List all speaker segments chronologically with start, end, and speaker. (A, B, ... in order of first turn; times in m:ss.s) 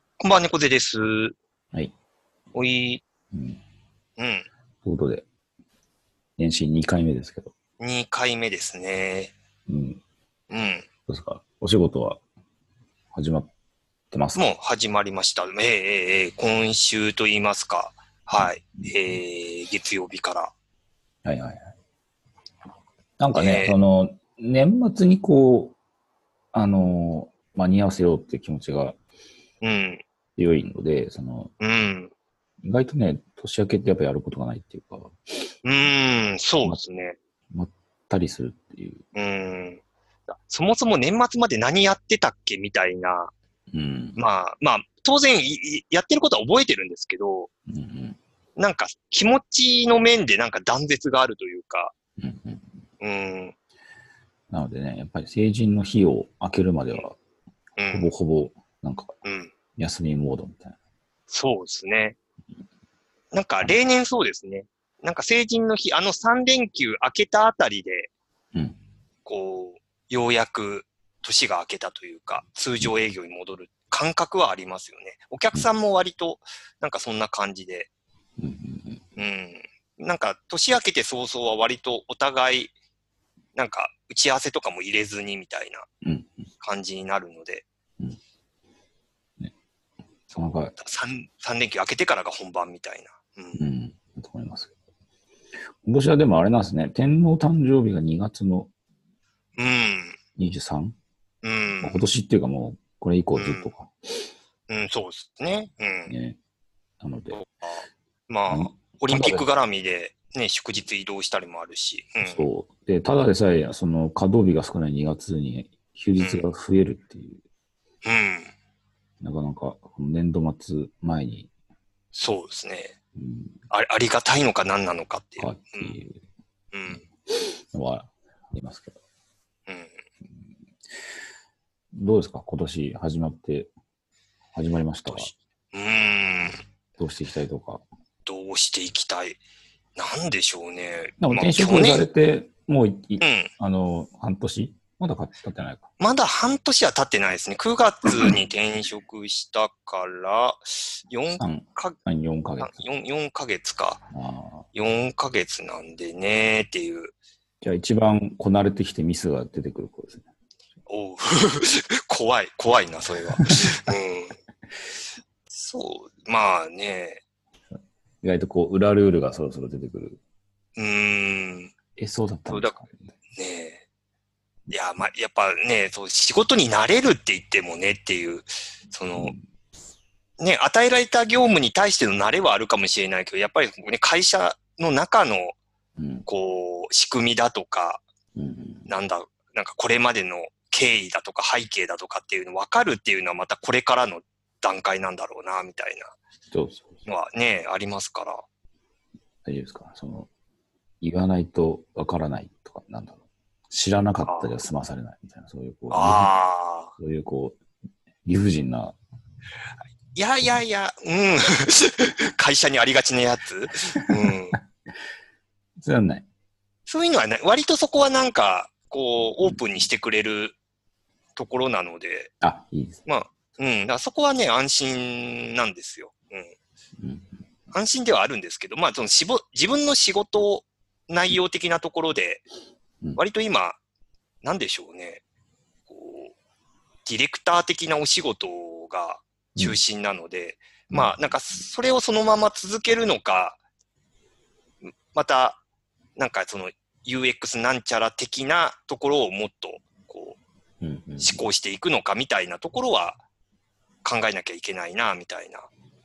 0:00.2-0:01.3 A
0:02.5-0:03.0 A
0:03.3-0:03.6 B
0:04.2-0:04.5 A
0:04.8-0:05.2 B
0:06.4-0:07.5 B
0:07.8-0:09.3 A
0:09.7-0:10.0 B
0:10.5-0:10.8 A
0:11.1-0:12.2 B
0:13.1-0:13.5 B
0:14.1-0:14.5 B
0:14.3-0:20.5 A
0:18.7-0:19.2 B
0:21.2-0:21.7 B
0:23.2-0:25.8 B
0:23.4-0:23.7 A
0:26.5-0:29.0 B
0:29.6-0:30.0 A
0:30.4-0:31.5 B
0:31.6-0:32.1 A
0:32.6-0:35.5 B
0:35.6-0:37.2 A
0:37.5-0:39.0 B
0:39.1-0:39.8 A
0:40.3-0:43.3 A
0:43.7-0:44.2 B
0:44.2-0:47.5 A
0:47.7-0:48.2 B
0:48.6-0:51.9 A
0:52.2-0:52.7 B
0:53.0-0:53.5 A
0:54.5-0:57.2 B
0:57.8-0:58.1 A
0:57.9-0:59.1 B
0:59.2-0:59.5 A
0:59.8-1:00.7 B
1:01.3-1:02.2 A
1:03.3-1:08.1 A
1:09.2-1:17.9 A
1:18.4-1:19.0 B
1:19.2-1:22.7 A
1:23.5-1:25.8 A
1:26.0-1:26.5 B
1:26.6-1:27.6 A
1:30.3-1:33.6 A
1:30.3-1:30.7 B
1:33.5-1:34.7 B
1:35.8-1:38.7 B
1:39.6-1:40.2 A
1:40.4-1:41.0 B
1:41.4-1:42.0 A
1:41.8-1:44.3 B
1:43.4-1:43.7 A
1:44.7-1:46.1 A
1:46.1-1:46.4 B
1:47.0-1:47.4 B
1:47.3-1:52.5 A
1:48.5-1:49.4 B
1:52.2-1:57.4 B
1:56.2-1:56.5 A
1:58.0-1:58.5 A
1:59.2-2:01.5 B
2:02.1-2:03.0 A
2:03.2-2:03.6 B
2:03.7-2:06.0 A
2:05.4-2:06.2 B
2:06.7-2:07.0 A
2:07.2-2:09.0 B
2:09.7-2:09.9 A
2:11.9-2:13.7 B
2:14.5-2:15.3 B
2:15.1-2:16.6 A
2:17.0-2:17.8 B
2:18.2-2:19.4 A
2:20.0-2:22.0 A
2:21.2-2:25.9 B
2:23.2-2:23.5 A
2:26.0-2:32.0 A
2:31.4-2:32.8 B
2:32.6-2:34.0 A
2:34.1-2:34.7 B
2:34.7-2:37.1 A
2:37.6-2:40.2 B
2:40.9-2:44.3 A
2:43.3-2:43.7 B
2:45.5-2:47.2 A
2:47.7-2:50.2 B
2:50.8-2:51.7 A
2:52.0-2:53.1 B
2:52.5-2:52.8 A
2:53.4-2:53.8 A
2:54.7-2:59.3 A
2:59.1-2:59.4 B
3:00.4-3:05.6 A
3:06.0-3:06.3 B
3:06.3-3:08.0 A
3:08.3-3:08.9 B
3:08.9-3:16.1 A
3:16.5-3:17.0 B
3:17.1-3:18.4 A
3:19.4-3:20.3 B
3:21.0-3:23.2 B
3:23.7-3:26.4 B
3:25.9-3:26.9 A
3:26.9-3:27.6 B
3:28.2-3:29.0 B
3:30.1-3:34.6 A
3:35.8-3:36.2 B
3:36.9-3:40.5 A
3:41.4-3:42.3 A
3:42.4-3:43.0 B
3:43.0-3:46.5 A
3:47.0-3:47.3 B
3:47.7-3:52.4 A
3:53.2-3:53.8 A
3:54.4-3:55.2 A
3:55.9-3:56.3 A
3:57.0-4:03.6 A
4:05.1-4:05.6 A
4:06.2-4:10.4 A
4:10.8-4:11.4 B
4:11.2-4:13.2 A
4:14.0-4:15.7 A